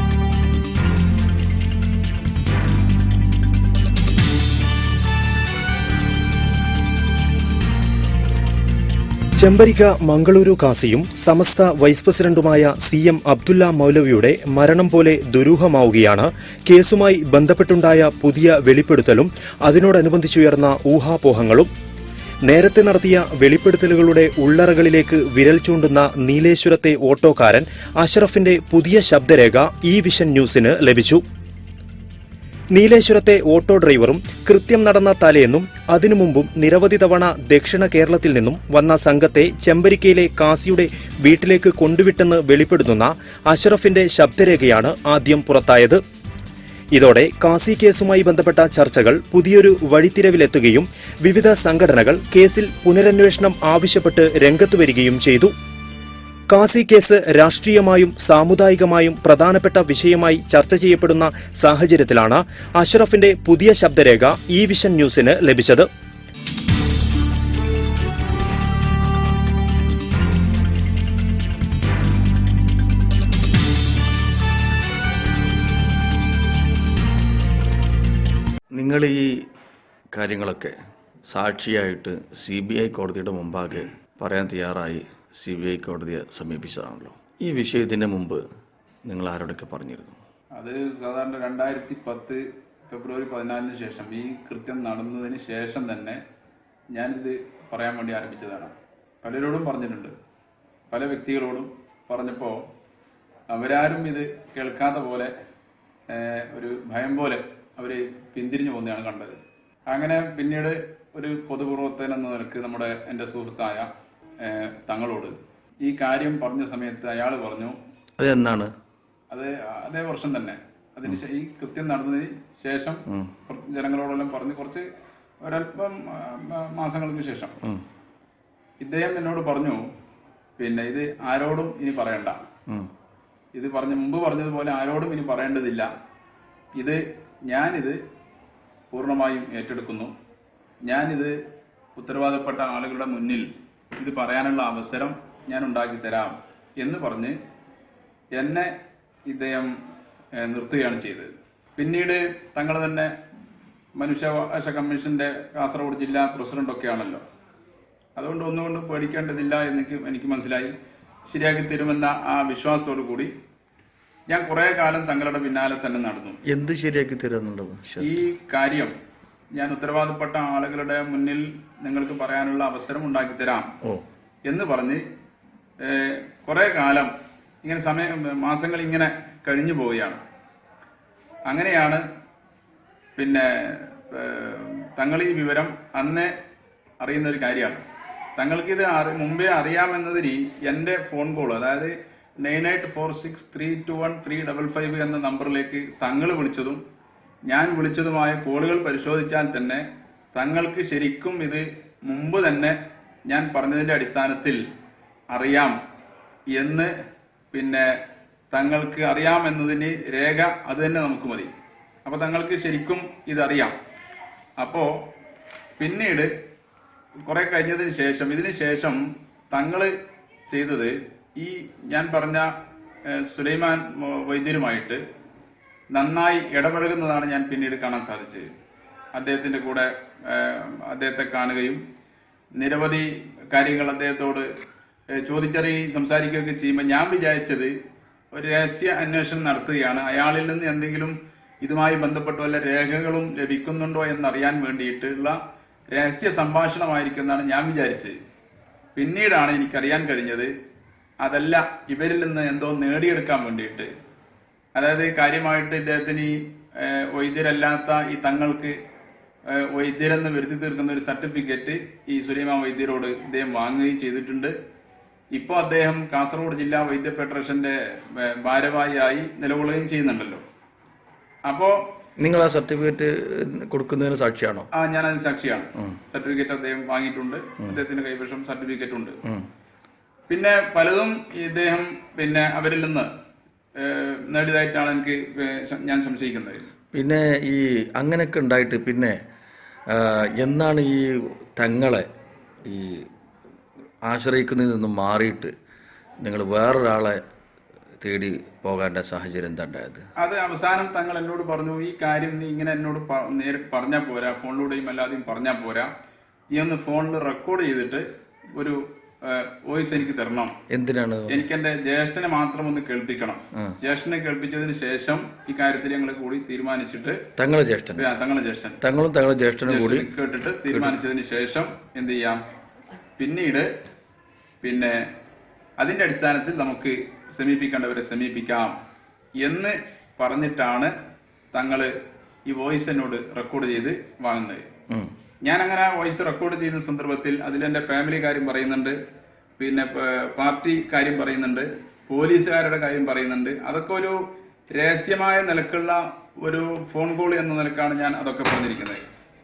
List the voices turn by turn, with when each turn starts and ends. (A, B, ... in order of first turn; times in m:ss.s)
0:09.4-0:21.7 A
0:22.5-0:31.2 A
0:32.7-0:46.0 A
0:47.0-0:55.5 A
0:56.5-1:05.9 A
1:18.8-1:19.5 B
1:20.2-1:20.7 B
1:21.3-1:28.4 B
1:29.1-1:30.2 B
1:30.6-1:36.2 C
1:36.9-1:40.1 C
1:40.9-1:42.6 C
1:43.5-1:45.3 C
1:46.1-1:49.4 C
1:49.9-1:53.9 C
1:54.4-1:57.8 C
1:58.2-1:58.7 B
1:59.3-2:04.9 C
2:05.4-2:07.6 C
2:08.8-2:09.8 C
2:10.6-2:12.4 C
2:13.6-2:15.9 C
2:16.8-2:18.0 C
2:18.9-2:20.1 C
2:20.9-2:21.4 C
2:22.0-2:27.4 C
2:28.4-2:28.7 C
2:29.3-2:29.7 C
2:30.4-2:33.1 C
2:34.0-2:37.2 C
2:38.2-2:40.7 C
2:41.3-2:43.3 C
2:44.3-2:46.4 C
2:46.5-2:48.2 B
2:48.0-2:48.9 C
2:49.6-2:53.7 C
2:54.5-2:55.0 C
2:55.8-2:57.1 C
2:57.6-3:00.2 C
3:01.5-3:02.0 C
3:03.2-3:06.3 C
3:07.0-3:07.8 C
3:08.4-3:16.8 C
3:17.5-3:22.8 C
3:23.3-3:24.6 C
3:25.3-3:25.8 C
3:26.5-3:26.9 C
3:27.5-3:27.9 C
3:28.5-3:31.5 C
3:32.0-3:33.8 C
3:34.6-3:34.9 C
3:35.8-3:36.3 C
3:37.3-3:39.9 C
3:40.5-3:42.5 C
3:43.1-3:45.0 C
3:45.9-3:48.5 C
3:49.2-3:51.8 C
3:52.6-3:54.5 C
3:55.2-3:57.7 C
3:58.3-4:05.4 C
4:05.9-4:08.2 C
4:08.9-4:10.5 C
4:11.2-4:13.9 C
4:14.8-4:18.8 C
4:19.5-4:24.5 C
4:25.3-4:30.4 C
4:31.5-4:31.8 C
4:32.2-4:34.7 B
4:34.7-4:39.2 C
4:40.3-4:43.1 C
4:43.8-4:46.6 C
4:46.9-4:49.2 B
4:49.9-4:52.0 B
4:52.7-4:53.1 B
4:54.1-4:55.5 B
4:56.2-4:57.2 B
4:58.0-5:00.0 B
5:00.2-5:05.9 C
5:06.5-5:08.0 C
5:08.6-5:10.5 C
5:10.7-5:11.4 B
5:11.3-5:17.2 C
5:17.4-5:18.1 B
5:18.0-5:18.8 C
5:18.8-5:20.1 B
5:19.7-5:22.4 C
5:20.7-5:21.0 B
5:23.2-5:23.7 C
5:24.6-5:25.0 C
5:25.8-5:28.7 C
5:29.4-5:30.9 C
5:31.5-5:31.9 C
5:32.5-5:34.6 C
5:35.4-5:39.0 C
5:39.6-5:44.2 C
5:44.7-5:49.0 C